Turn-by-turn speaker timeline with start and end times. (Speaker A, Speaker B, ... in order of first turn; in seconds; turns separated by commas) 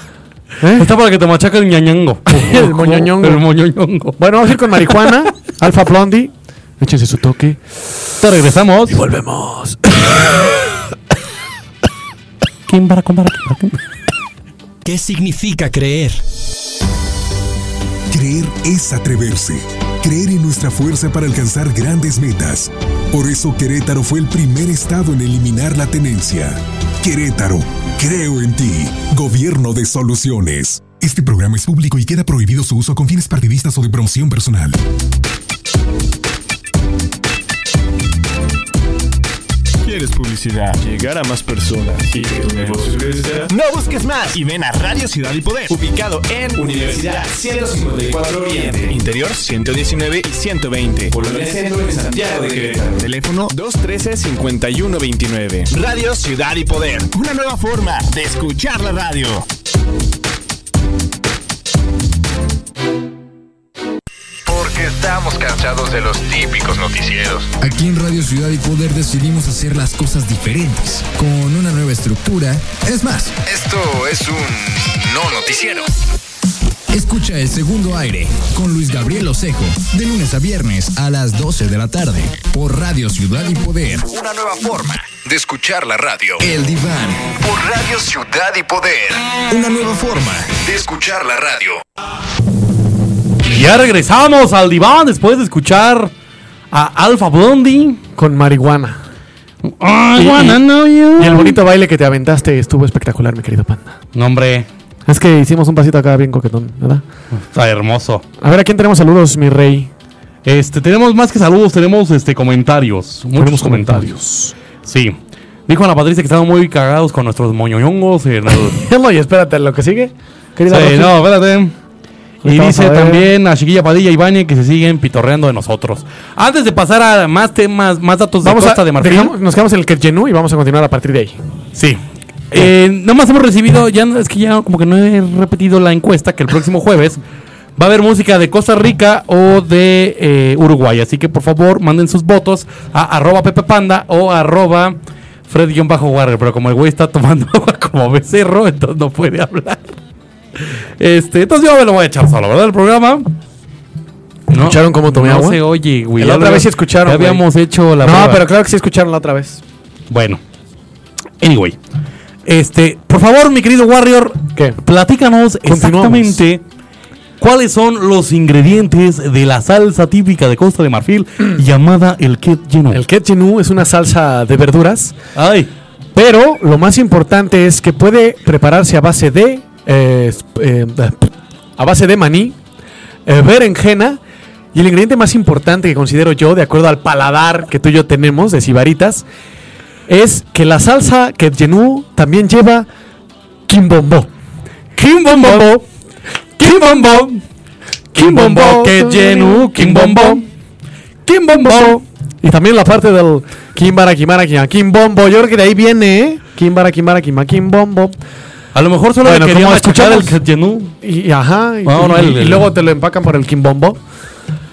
Speaker A: 0.6-0.9, Speaker B: 0.8-5.2, Speaker A: 2.3-3.4, Speaker A: 4.2-7.6, Speaker B: 8.2-9.0, Speaker A: 8.9-10.1, Speaker B: 12.7-13.8, Speaker C: 18.1-34.8, Speaker D: 39.8-59.4, Speaker E: 64.4-67.5, Speaker F: 67.6-73.4, Speaker E: 73.4-75.9, Speaker F: 76.9-84.1, Speaker E: 84.0-86.4, Speaker F: 86.4-87.3, Speaker E: 87.2-89.5, Speaker F: 89.5-90.5, Speaker E: 90.5-91.8, Speaker B: 93.4-96.1, Speaker B: 96.7-98.0, Speaker A: 98.2-99.0, Speaker B: 99.7-101.6, Speaker A: 100.2-100.6, Speaker A: 101.2-104.0, Speaker B: 104.1-104.7, Speaker A: 105.1-107.0, Speaker B: 107.4-108.2, Speaker A: 108.4-109.9, Speaker B: 110.4-114.1, Speaker A: 113.4-114.5, Speaker B: 114.8-115.2, Speaker B: 115.7-118.8, Speaker A: 118.5-121.2, Speaker B: 120.7-121.7, Speaker A: 122.4-123.3, Speaker B: 122.4-129.3, Speaker A: 128.4-131.4, Speaker B: 131.7-137.2, Speaker B: 137.8-144.9, Speaker B: 145.5-149.9, Speaker B: 151.0-153.3, Speaker B: 154.5-158.5, Speaker A: 154.5-155.6, Speaker A: 156.2-157.4, Speaker A: 158.0-159.6, Speaker B: 160.1-160.4, Speaker B: 161.4-161.8, Speaker B: 162.4-166.6, Speaker A: 165.7-166.4, Speaker B: 167.4-173.0, Speaker A: 172.9-175.2, Speaker B: 175.3-175.7, Speaker A: 176.1-182.6, Speaker A: 183.2-184.2, Speaker A: 184.7-189.2, Speaker A: 190.1-192.9, Speaker A: 193.7-194.3, Speaker B: 195.0-195.8, Speaker A: 195.0-195.8, Speaker B: 196.6-197.4, Speaker A: 196.6-197.3, Speaker B: 198.1-200.5, Speaker A: 198.1-200.4, Speaker B: 201.2-202.0, Speaker A: 201.5-208.1, Speaker B: 208.7-210.9, Speaker A: 209.2-210.3, Speaker A: 211.0-214.0, Speaker B: 211.9-212.7